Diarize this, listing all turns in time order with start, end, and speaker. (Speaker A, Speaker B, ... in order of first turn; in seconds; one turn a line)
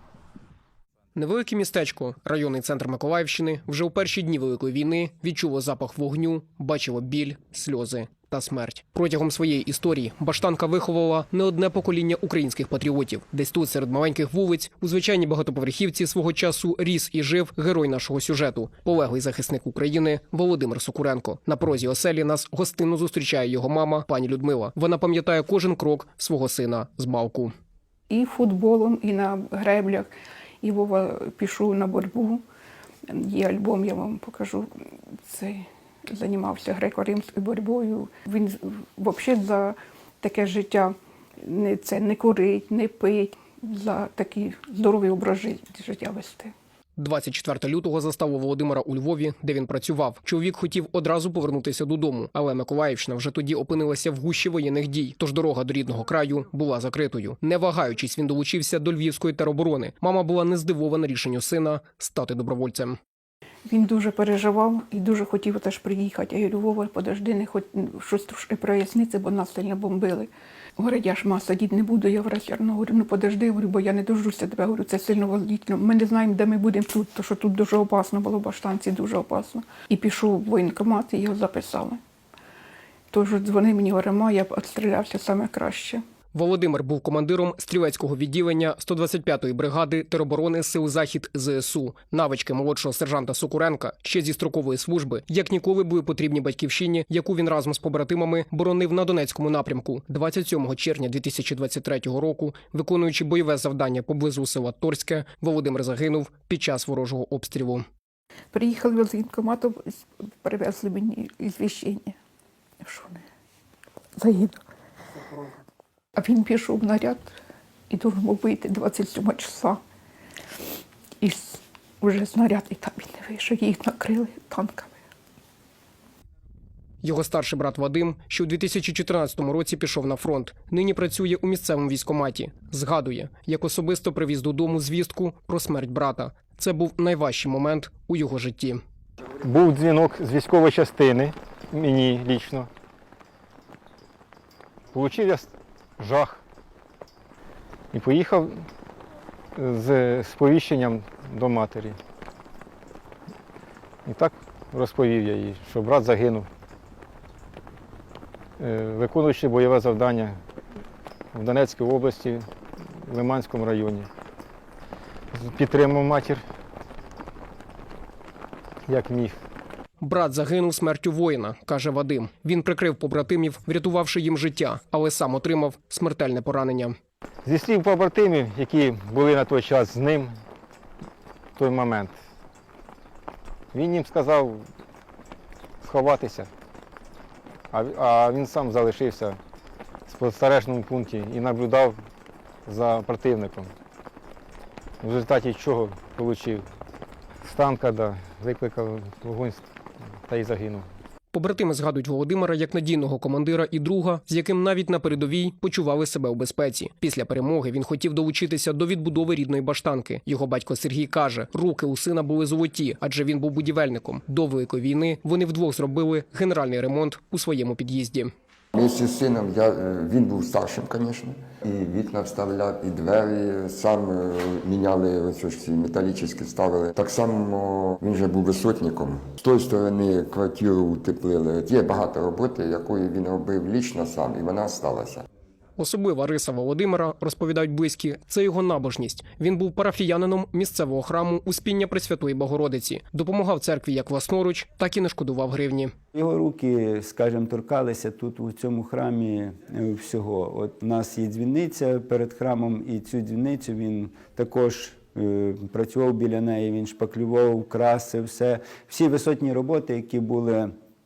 Speaker A: 1.1-27.5
Speaker B: 28.1-30.1
Speaker B: 30.6-32.4
Speaker B: 33.1-34.7
Speaker B: 35.2-46.5
Speaker A: 47.0-63.0
Speaker B: 63.7-82.0
Speaker B: 83.1-86.0
Speaker A: 86.3-107.9
Speaker B: 108.5-112.2
Speaker B: 112.8-113.2
Speaker B: 114.2-114.6
Speaker B: 116.2-117.3
Speaker B: 117.9-119.8
Speaker B: 121.2-125.0
Speaker A: 127.0-138.8
Speaker C: 139.4-142.7
Speaker C: 144.9-146.4
Speaker C: 147.9-148.6
Speaker C: 149.6-152.0
Speaker C: 154.1-156.5
Speaker C: 158.6-160.4
Speaker C: 161.3-164.1
Speaker C: 165.3-166.4
Speaker C: 168.9-169.3
Speaker A: 170.0-177.0
Speaker C: 177.4-180.3
Speaker C: 181.6-182.2
Speaker C: 183.7-184.7
Speaker C: 185.8-186.5
Speaker C: 187.7-189.4
Speaker C: 190.1-192.0
Speaker C: 192.7-193.7
Speaker C: 195.0-196.7
Speaker C: 197.4-199.7
Speaker C: 200.2-200.9
Speaker A: 201.3-218.3
Speaker D: 218.7-235.2
Speaker A: 235.8-245.9
Speaker E: 246.1-260.7